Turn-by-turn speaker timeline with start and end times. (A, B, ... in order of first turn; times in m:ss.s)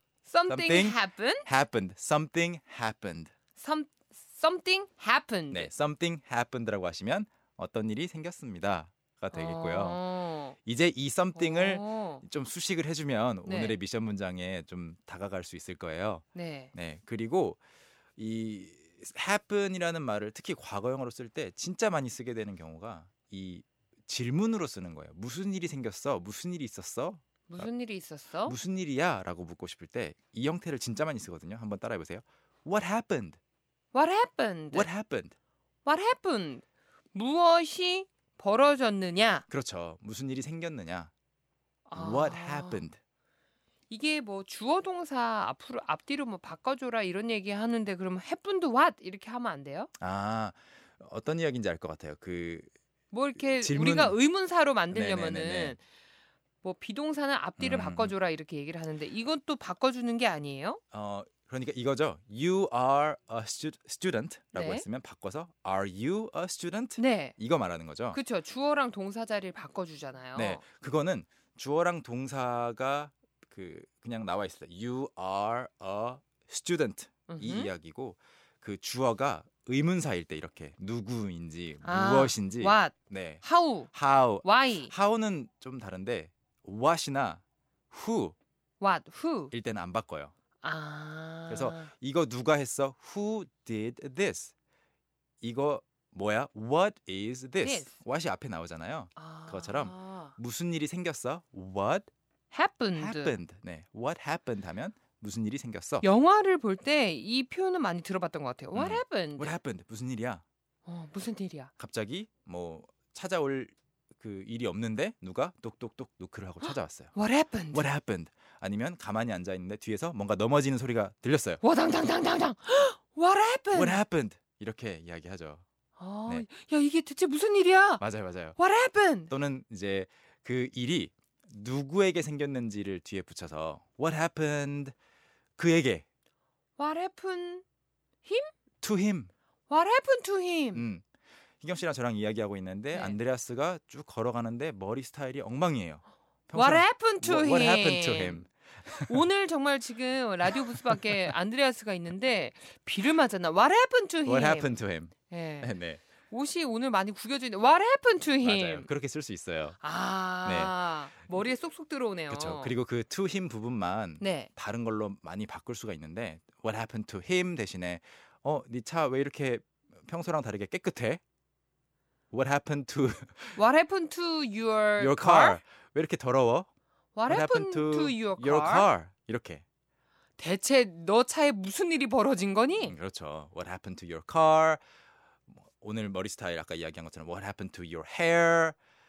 0:00.2-0:01.5 A
0:00.5-0:03.3 B
0:03.6-0:05.7 A
0:05.5-0:17.6 B
0:09.3-0:10.5 A
0:11.3-0:12.2 A
0:13.4-0:13.8 A
0:16.3-0:16.7 A
0:18.2-0:27.7 B
0:27.5-0:28.6 A
0:28.4-0:33.4 B
0:33.9-0:34.9 A
0:34.7-0:35.3 B
0:35.8-0:39.4 A
0:39.5-0:41.1 B
0:41.9-0:42.9 A
0:41.9-0:43.0 B
0:43.9-0:49.9 A
0:50.0-0:52.7 B
0:53.1-0:55.8 A
0:53.4-0:54.2 B
0:54.9-0:55.8 B
0:56.6-1:00.8 A
0:57.6-0:58.1 B
1:00.9-1:08.2 B
1:04.5-1:04.8 A
1:07.0-1:07.4 A
1:08.1-1:10.6 A
1:10.3-1:28.3 B
1:17.3-1:17.7 A
1:21.8-1:24.9 A
1:28.8-1:29.5 A
1:29.5-1:30.3 B
1:30.6-1:31.9 A
1:31.5-1:34.5 B
1:35.4-1:42.1 B
1:37.6-1:37.9 A
1:39.2-1:40.3 A
1:42.5-1:43.4 A
1:42.9-1:46.0 B
1:46.0-1:49.5 A
1:48.7-1:50.4 B
1:50.8-1:51.7 A
1:51.8-1:57.1 B
1:56.6-1:57.8 A
1:57.7-2:01.6 B
2:01.6-2:04.0 A
2:03.7-2:05.6 B
2:06.0-2:08.0 A
2:08.0-2:08.6 B
2:08.5-2:09.3 A
2:09.3-2:14.9 B
2:15.6-2:16.0 B
2:16.8-2:17.6 A
2:18.2-2:18.5 A
2:18.8-2:19.3 B
2:19.7-2:20.8 A
2:20.7-2:21.0 B
2:21.6-2:29.2 B
2:22.9-2:23.2 A
2:26.5-2:28.5 A
2:29.0-2:35.7 A
2:30.5-2:31.2 B
2:34.2-2:36.0 B
2:36.3-2:38.9 A
2:38.4-2:39.8 B
2:39.8-2:42.7 A
2:40.4-2:40.8 B
2:42.3-2:51.2 B
2:44.2-2:44.5 A
2:52.3-2:53.6 B
2:53.5-2:55.6 A
2:55.0-2:56.7 B
2:57.2-2:58.9 A
2:57.3-2:59.6 B
3:00.4-3:03.0 A
3:02.8-3:04.8 B
3:05.5-3:08.7 B